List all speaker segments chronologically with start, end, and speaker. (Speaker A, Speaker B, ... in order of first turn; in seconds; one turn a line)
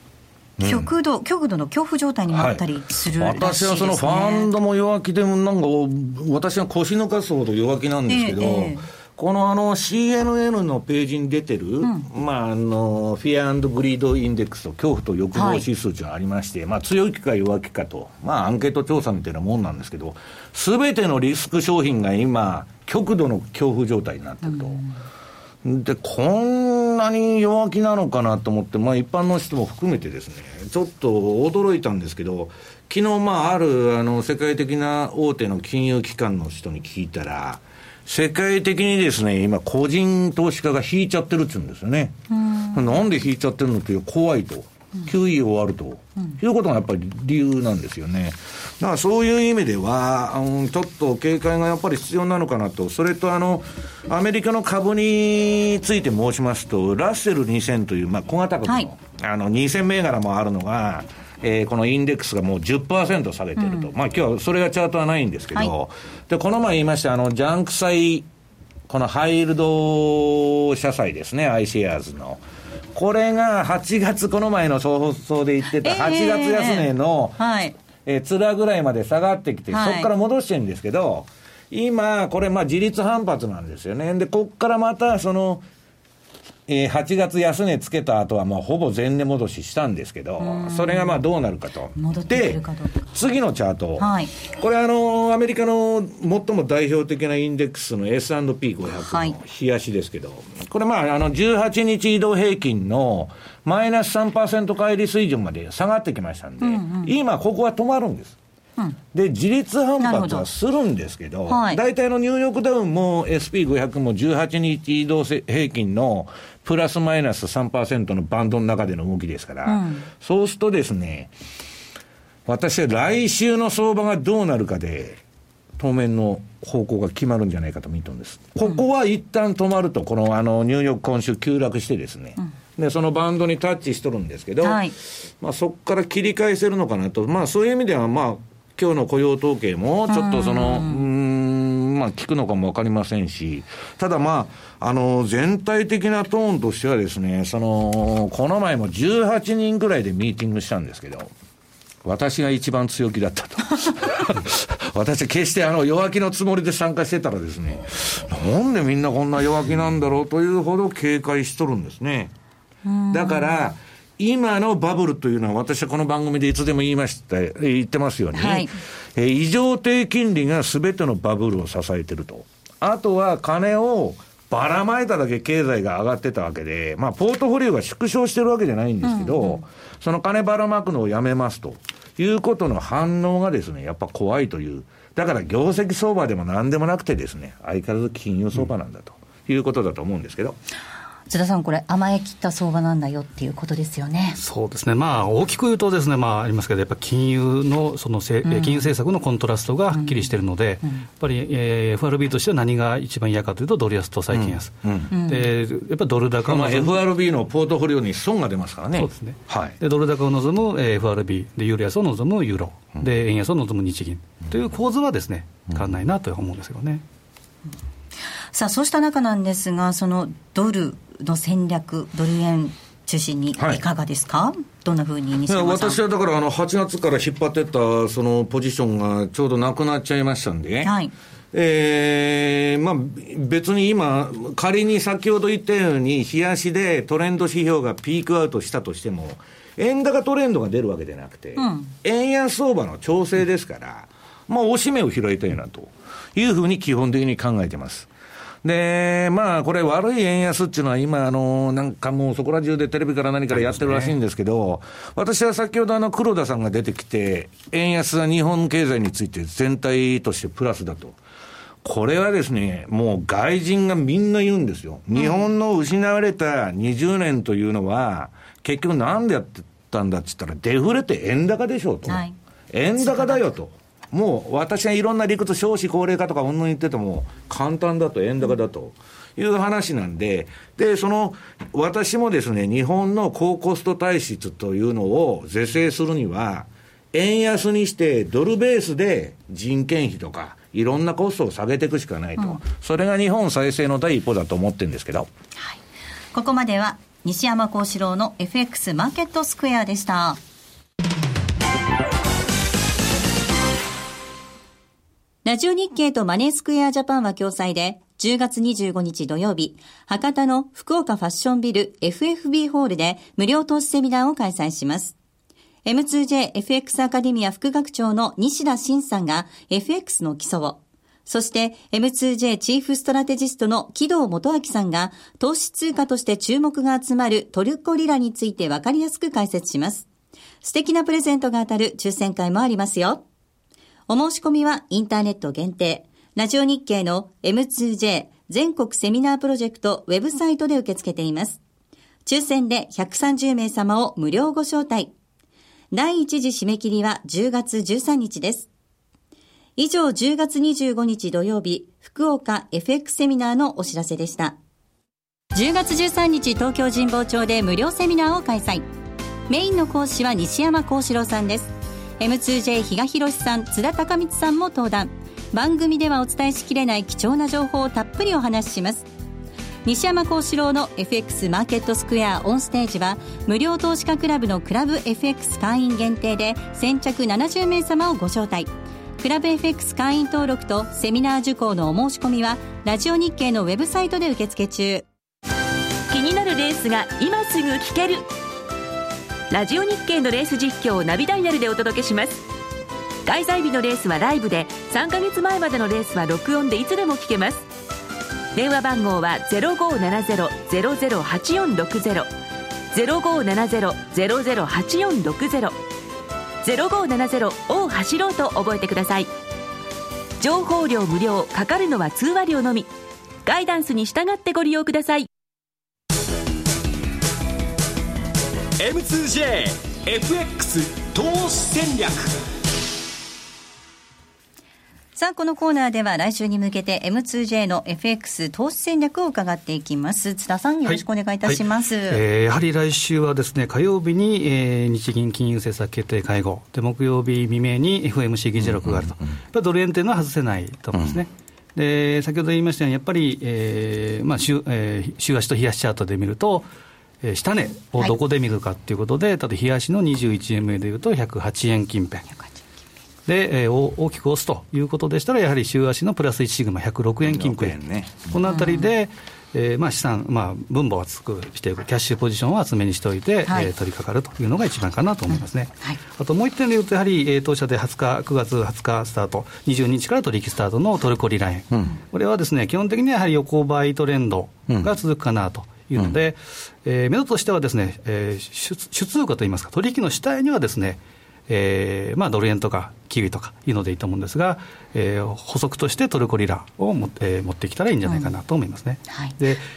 Speaker A: 0.6-0.9
Speaker B: 0.6-4.5
Speaker A: 2.3-24.8
Speaker B: 8.1-8.8
Speaker B: 11.8-12.1
Speaker B: 15.3-15.6
Speaker B: 24.4-24.9
Speaker A: 25.6-42.2
Speaker B: 42.3-43.0
Speaker A: 42.7-68.3
Speaker B: 63.6-63.9
Speaker A: 68.9-72.4
Speaker A: 72.9-77.4
Speaker B: 75.8-77.7
Speaker A: 78.0-85.6
Speaker B: 79.7-80.1
Speaker A: 86.7-108.3
Speaker B: 90.4-91.2
Speaker B: 92.0-93.1
Speaker B: 94.0-94.3
Speaker B: 99.1-99.4
Speaker B: 106.6-107.1
Speaker A: 109.1-121.3
Speaker B: 110.0-110.5
Speaker B: 111.5-111.8
Speaker B: 119.7-120.1
Speaker A: 122.5-125.2
Speaker A: 125.8-151.3
Speaker B: 134.6-134.9
Speaker B: 140.1-141.0
Speaker A: 152.0-162.3
Speaker B: 162.8-163.5
Speaker A: 163.1-190.6
Speaker B: 168.3-168.7
Speaker B: 179.0-179.6
Speaker B: 191.3-194.4
Speaker C: 194.4-207.0
Speaker B: 198.4-198.9
Speaker B: 199.9-200.2
Speaker A: 204.3-205.1
Speaker B: 205.1-205.4
Speaker A: 206.4-209.8
Speaker C: 208.9-217.0
Speaker B: 218.5-226.0
Speaker A: 223.6-223.8
Speaker A: 225.5-230.9
Speaker B: 230.8-231.1
Speaker A: 231.5-248.1
Speaker B: 241.6-241.9
Speaker A: 248.6-261.2
Speaker C: 253.6-254.1
Speaker A: 261.8-295.3
Speaker B: 265.1-265.4
Speaker B: 272.1-272.3
Speaker B: 273.0-273.4
Speaker B: 296.3-300.4
Speaker B: 305.4-315.1
Speaker B: 315.9-330.1
Speaker B: 330.6-333.2
Speaker B: 334.1-341.6
Speaker B: 342.2-345.1
Speaker B: 345.9-348.7
Speaker B: 349.8-354.6
Speaker B: 355.5-358.8
Speaker B: 359.5-369.1
Speaker B: 369.8-385.1
Speaker D: 386.1-388.3
Speaker D: 389.5-392.4
Speaker D: 393.2-397.7
Speaker D: 398.5-402.3
Speaker D: 402.9-405.8
Speaker D: 406.6-409.3
Speaker D: 410.4-412.9
Speaker D: 413.4-415.3
Speaker E: 418.8-422.3
Speaker B: 425.1-432.2
Speaker C: 430.9-446.7
Speaker A: 438.6-439.3
Speaker A: 440.9-441.2
Speaker C: 447.2-452.3
Speaker C: 453.2-489.6
Speaker A: 457.2-458.3
Speaker B: 458.4-458.9
Speaker B: 465.3-466.0
Speaker B: 488.1-488.3